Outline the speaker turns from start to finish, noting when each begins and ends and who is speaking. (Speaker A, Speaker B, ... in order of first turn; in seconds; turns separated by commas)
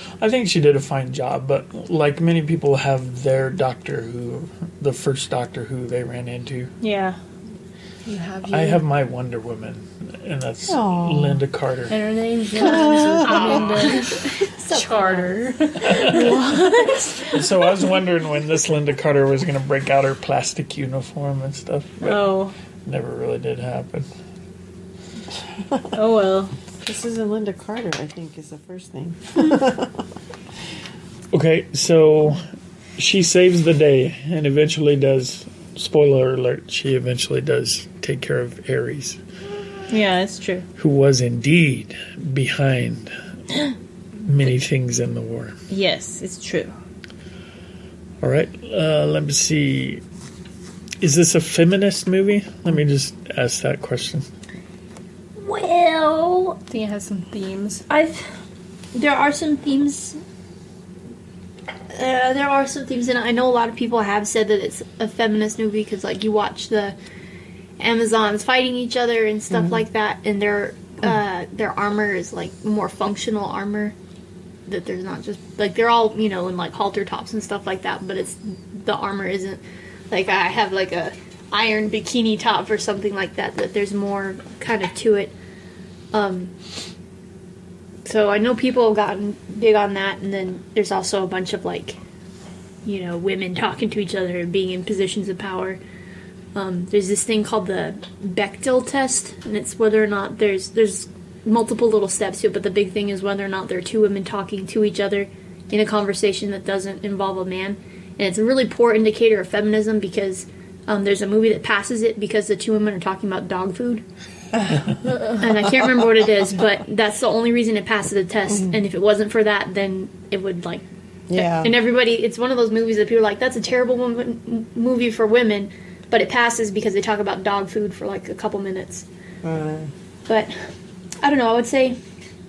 Speaker A: 0.2-6.7, Speaker B: 6.8-7.2, Speaker C: 8.1-8.8, Speaker A: 8.5-11.9, Speaker D: 10.7-11.4, Speaker C: 11.9-16.9, Speaker D: 12.5-13.9, Speaker E: 13.2-15.4, Speaker A: 15.9-16.3, Speaker B: 15.9-17.4, Speaker A: 17.3-24.1, Speaker B: 22.0-22.6, Speaker B: 25.9-26.5, Speaker D: 26.8-30.1, Speaker A: 31.3-32.4, Speaker A: 33.0-39.2, Speaker B: 39.9-40.6, Speaker A: 40.8-43.1, Speaker A: 44.2-45.6, Speaker B: 45.7-46.7, Speaker A: 48.2-50.0, Speaker A: 51.0-54.3, Speaker E: 55.4-56.6, Speaker C: 56.7-57.8, Speaker E: 57.9-58.3, Speaker E: 58.9-60.2, Speaker E: 61.9-67.0, Speaker E: 67.8-74.0, Speaker E: 74.7-85.3, Speaker E: 86.1-86.5, Speaker E: 88.0-92.0, Speaker E: 92.8-95.8, Speaker E: 96.5-114.0, Speaker E: 115.2-120.8, Speaker D: 121.3-121.8, Speaker E: 121.3-129.1, Speaker D: 129.4-129.9, Speaker E: 130.3-130.6, Speaker E: 131.2-132.0